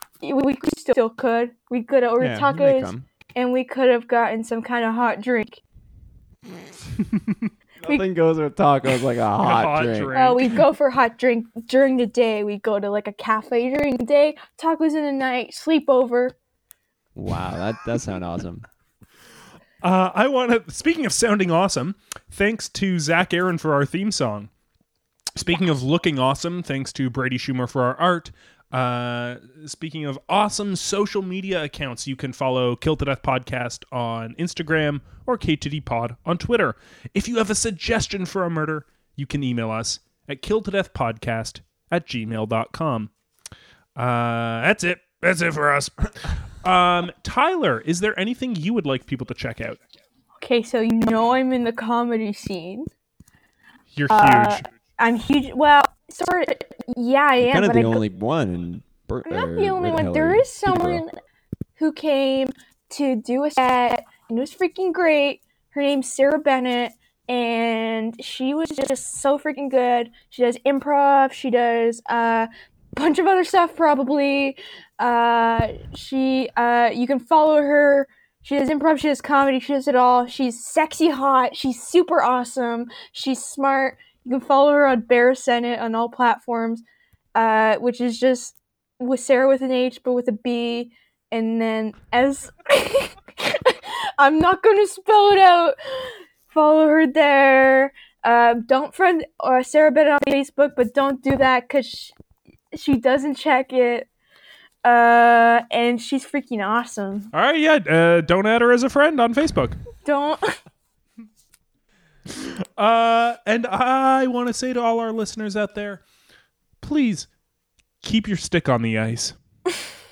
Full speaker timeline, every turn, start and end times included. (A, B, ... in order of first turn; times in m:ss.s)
0:00.2-0:05.6 A
0:02.2-0:03.0 B
0:07.8-0:10.2 B
0:09.4-0:10.6 C
0:10.1-0:16.3 A
0:17.2-0:18.6 B
0:19.8-0:24.5 C
0:25.3-0:43.1 C
0:44.0-0:49.8 C
0:50.4-0:52.9 A
0:53.9-0:54.6 C
0:54.1-0:58.0 A
0:57.4-1:01.0 B
0:59.2-1:01.1 A
1:01.8-1:26.8 A
1:27.3-1:42.1 A
1:42.7-1:44.1 A
1:44.8-1:47.3 A
1:47.3-1:49.8 C
1:50.0-1:50.6 A
1:52.3-1:56.0 C
1:56.8-1:57.3 C
1:58.0-1:59.4 C